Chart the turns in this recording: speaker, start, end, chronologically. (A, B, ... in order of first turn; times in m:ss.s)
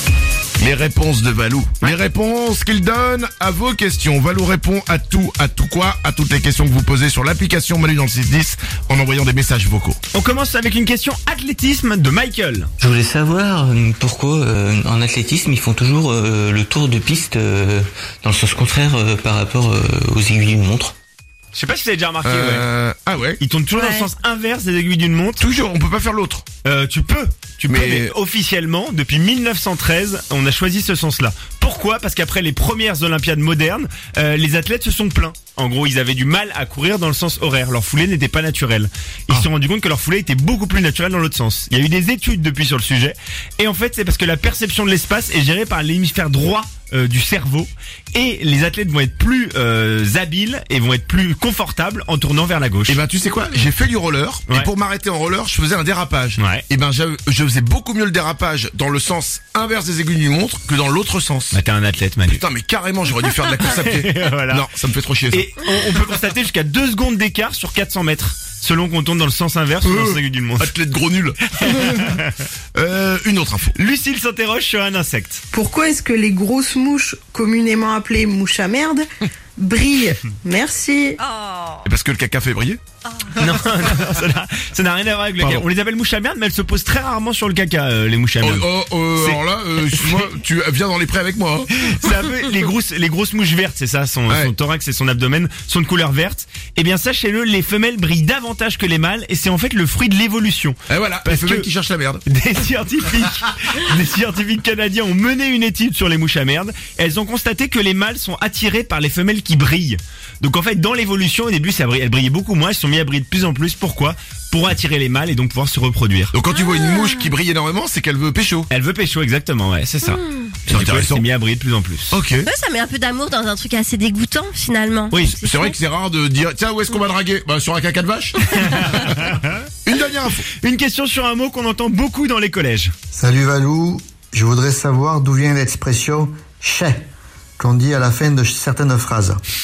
0:00.6-0:10.0 A
0:10.1-0:12.7 B
0:12.8-0:20.9 C
0:21.5-0:22.6 B
0:22.2-0:23.4 A
0:23.4-0:25.4 B
0:23.8-0:24.0 D
0:25.4-0:26.4 A
0:26.6-0:53.0 B
0:27.6-0:28.1 A
0:52.9-1:01.6 A
0:56.4-0:56.6 B
1:01.5-1:02.4 B
1:02.3-1:05.5 A
1:03.4-1:04.6 B
1:05.3-1:10.7 B
1:09.8-1:11.4 A
1:11.5-1:12.3 B
1:12.7-1:13.7 A
1:13.7-1:15.4 B
1:15.5-1:19.0 E
1:19.6-1:21.2 E
1:21.2-1:21.8 D
1:21.8-1:22.8 A
1:23.3-1:30.4 B
1:25.4-1:25.6 A
1:28.4-1:32.1 A
1:31.8-1:41.7 B
1:40.9-1:42.2 A
1:42.2-1:56.4 B
1:56.3-1:58.7 A
1:58.7-2:02.2 B
2:00.0-2:00.5 D
2:00.7-2:01.2 A
2:02.1-2:02.5 A
2:02.4-2:05.7 D
2:05.1-2:05.4 B
2:05.4-2:09.2 A
2:08.6-2:09.6 B
2:09.8-2:10.4 A
2:10.5-2:12.9 B
2:13.1-2:17.1 F
2:17.6-2:19.4 F